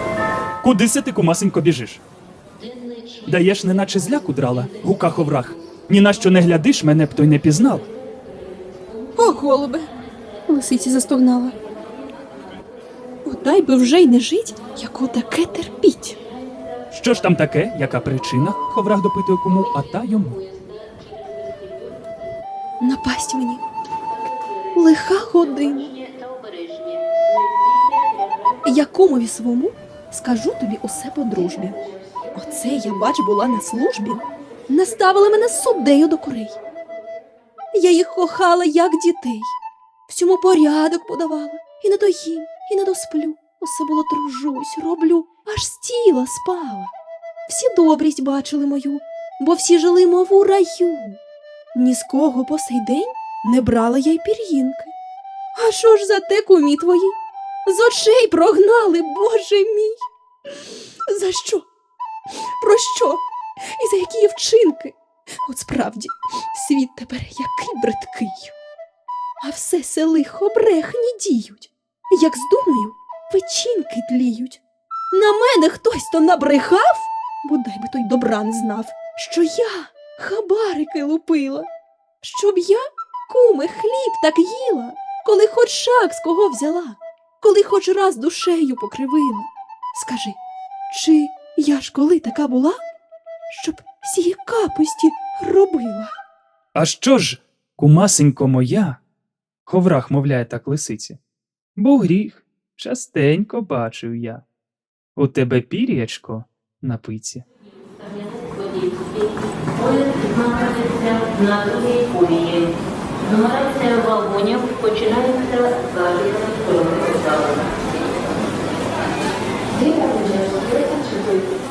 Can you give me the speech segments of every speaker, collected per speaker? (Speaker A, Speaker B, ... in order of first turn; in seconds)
Speaker A: 0.6-2.0, 3.3-7.9, 16.9-20.4, 96.8-99.0, 99.7-101.2, 101.8-104.4, 105.2-107.5
Speaker B: 2.6-3.3, 3.8-5.5, 19.5-22.1, 24.2-28.6, 107.8-117.9, 120.0-121.4
Speaker C: 9.2-9.9, 10.5-11.6, 13.2-16.2, 22.8-23.6, 24.8-25.9, 28.6-31.8, 32.3-36.6, 37.7-39.5, 40.1-46.9, 47.5-51.2, 51.8-54.9, 55.6-60.5, 61.1-61.7, 62.6-63.2, 63.8-68.5, 69.4-74.6, 75.1-81.7, 82.2-90.4, 90.9-92.8, 93.5-96.1